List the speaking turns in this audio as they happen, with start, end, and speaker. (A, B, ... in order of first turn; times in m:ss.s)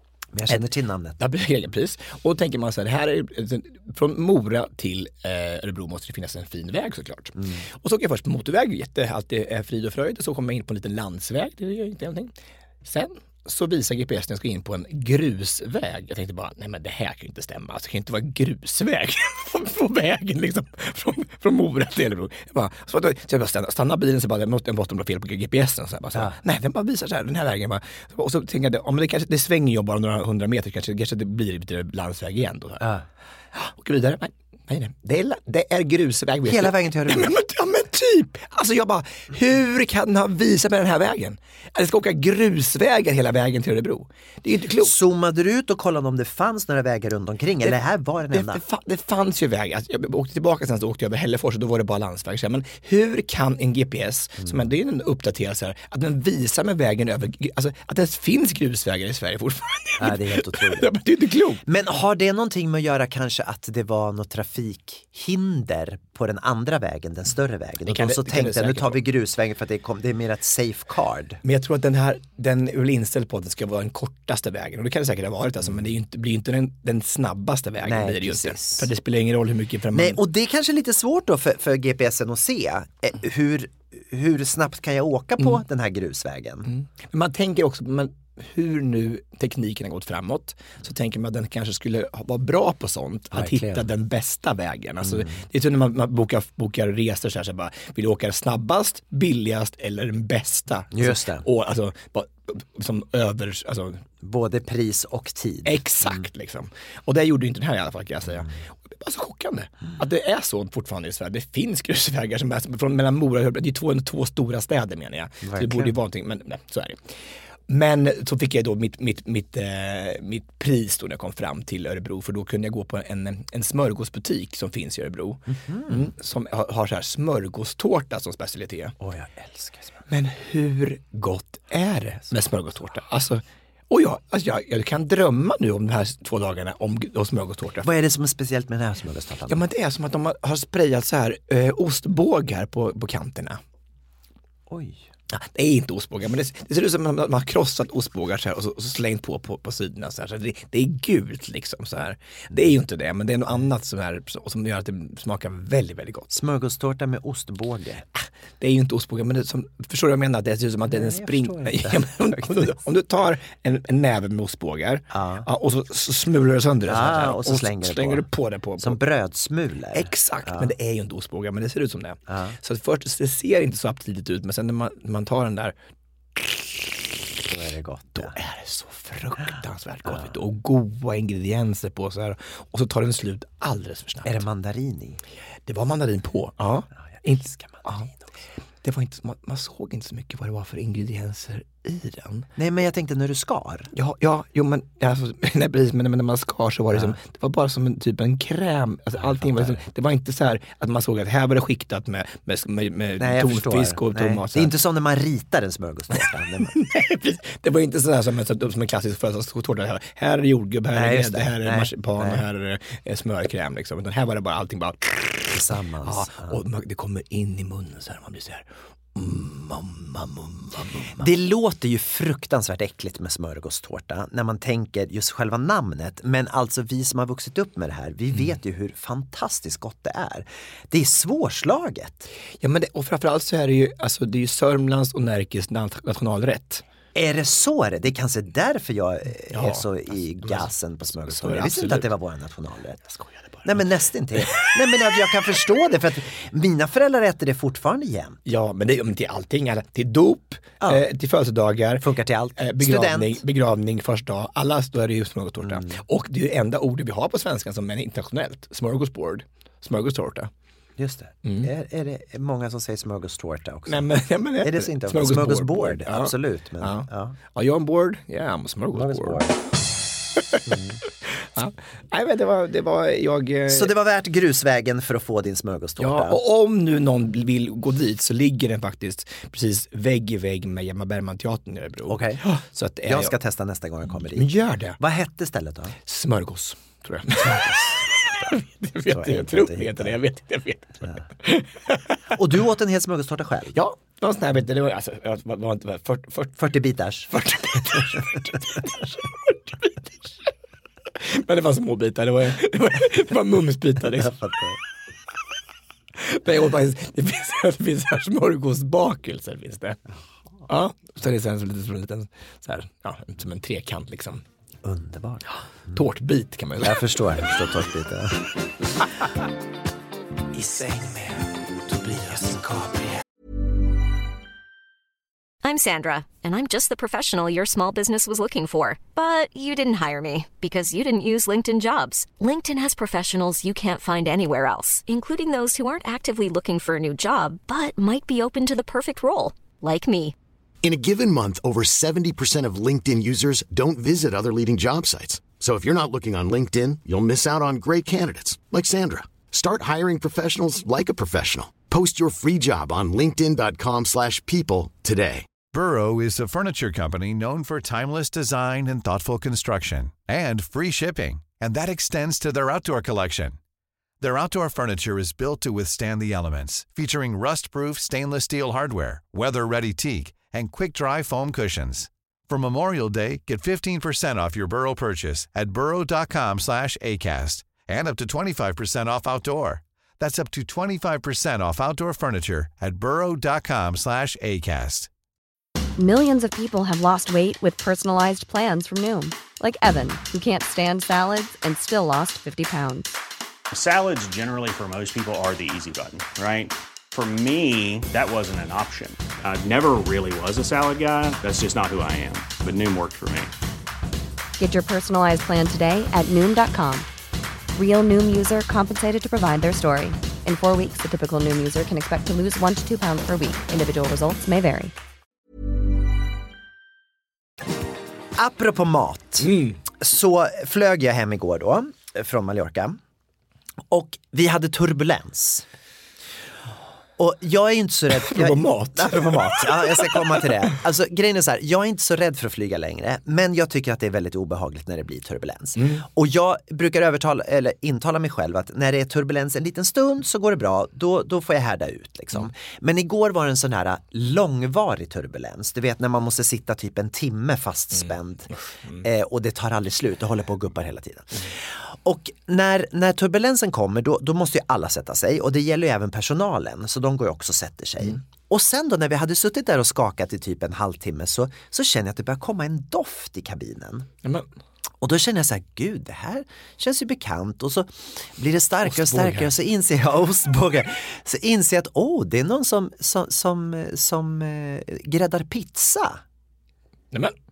0:00.3-0:01.2 A
0:01.2-0:32.9 B
0:07.3-0:07.6 A
0:33.5-0:45.0 B
0:36.4-0:37.3 A
0:44.8-0:48.6 A
0:48.3-1:01.6 B
1:00.0-1:00.9 A
1:01.6-1:11.4 A
1:07.8-1:09.0 B
1:11.4-1:20.2 B
1:17.8-1:18.9 A
1:19.9-1:26.7 A
1:26.7-1:44.0 B
1:33.3-1:33.8 A
1:35.0-1:35.4 A
1:40.9-1:41.4 A
1:44.2-1:46.2 A
1:45.6-1:57.2 B
1:55.4-1:55.9 A
1:57.7-2:09.0 B
2:05.5-2:06.1 A
2:09.0-2:10.0 A
2:10.1-2:17.9 B
2:17.8-2:19.6 A
2:19.5-2:23.6 B
2:24.7-2:25.0 A
2:25.3-2:36.3 B
2:36.3-2:38.0 A
2:38.1-2:49.0 B
2:40.9-2:42.7 A
2:45.1-2:45.5 A
2:46.9-2:48.2 A
2:48.8-2:50.7 A
2:49.9-2:55.7 B
2:52.3-2:52.6 A
2:56.4-2:57.0 B
2:57.4-2:58.3 A
2:58.1-3:04.4 B
3:04.2-3:05.2 A
3:05.7-3:08.1 B
3:07.2-3:07.9 A
3:08.8-3:12.4 B
3:12.6-3:13.9 A
3:13.9-3:24.7 B
3:19.2-3:19.8 A
3:23.2-3:26.8 A
3:26.2-3:41.3 B
3:30.9-3:32.4 A
3:35.5-3:36.6 A
3:41.2-3:52.3 A
3:52.6-3:56.8 B
3:57.1-4:03.0 A
3:59.5-3:59.8 B
4:00.4-4:00.7 B
4:01.2-4:02.1 B
4:03.1-4:03.6 B
4:03.6-4:08.4 A
4:04.4-4:05.1 B
4:08.4-4:20.5 B
4:10.8-4:11.0 A
4:12.0-4:13.4 A
4:15.6-4:16.0 A
4:21.0-4:27.4 A
4:21.4-4:21.7 B
4:23.9-4:29.4 B
4:28.9-4:29.6 A
4:30.6-4:31.0 A
4:31.5-4:33.9 B
4:33.7-4:36.4 A
4:36.0-4:43.4 B
4:42.1-4:42.4 A
4:43.0-4:45.9 A
4:44.3-4:45.0 B
4:46.0-4:52.3 B
4:47.4-4:48.5 A
4:49.0-4:50.1 A
4:52.3-4:53.8 A
4:53.7-4:56.6 B
4:56.6-4:58.4 A
4:57.3-5:00.5 B
5:01.2-5:04.4 B
5:04.0-5:04.8 A
5:06.2-5:10.0 B
5:10.7-5:14.4 B
5:14.8-5:16.0 A
5:15.5-5:17.2 B
5:16.8-5:18.5 A
5:20.5-5:23.2 B
5:25.6-5:40.3 C
5:40.8-5:55.5 D
5:55.7-6:03.6 E
6:04.2-6:25.1 E
6:26.0-6:33.1 F
6:33.7-6:43.5 G
6:44.6-6:47.1 F
6:47.7-6:54.9 F
6:58.3-7:03.0 A
6:59.4-6:59.8 B
7:03.9-7:05.6 A
7:07.2-7:44.1 A
7:08.1-7:10.4 B
7:15.8-7:16.0 B
7:28.0-7:29.0 B
7:45.0-7:56.2 A
7:48.8-7:49.5 B